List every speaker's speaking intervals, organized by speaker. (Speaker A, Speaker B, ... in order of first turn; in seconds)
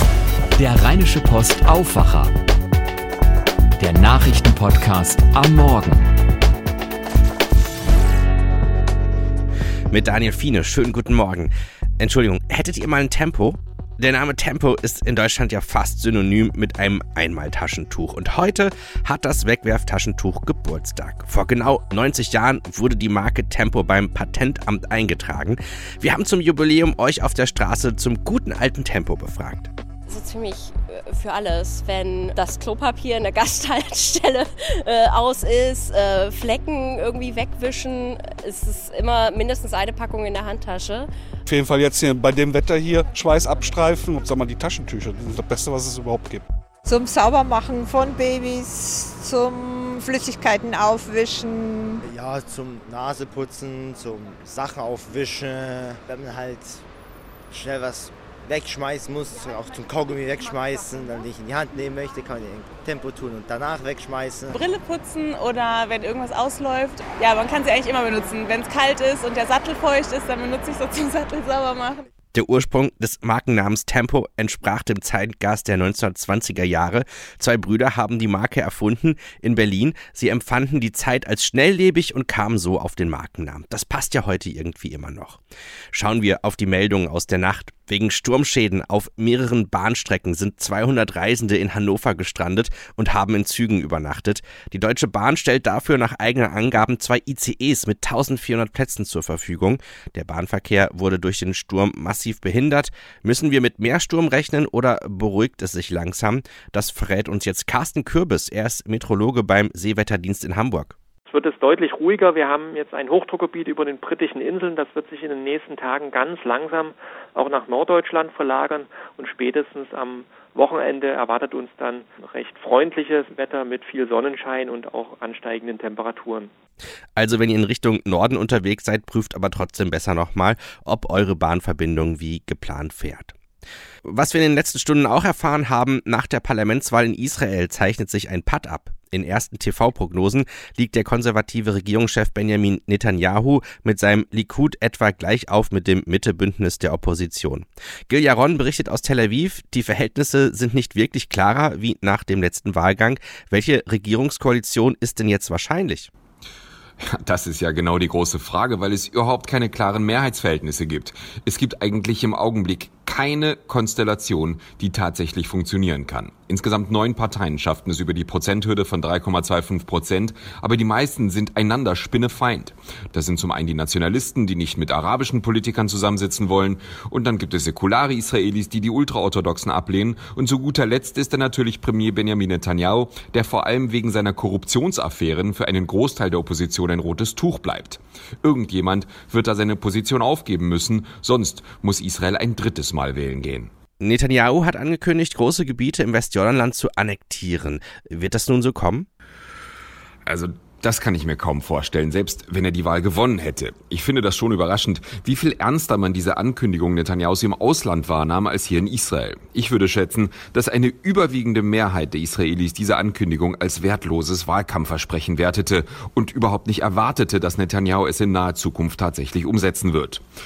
Speaker A: 0.6-2.3, 3.8-6.1
Speaker B: 9.9-29.7, 72.3-85.4, 85.9-111.0, 127.2-133.3, 134.0-156.1, 194.0-199.1
Speaker C: 30.1-41.1
Speaker D: 41.5-46.4
Speaker E: 46.8-52.0
Speaker F: 52.0-56.8, 57.5-64.6
Speaker G: 64.5-72.0
Speaker H: 111.3-126.5
Speaker I: 157.0-193.7, 200.2-220.2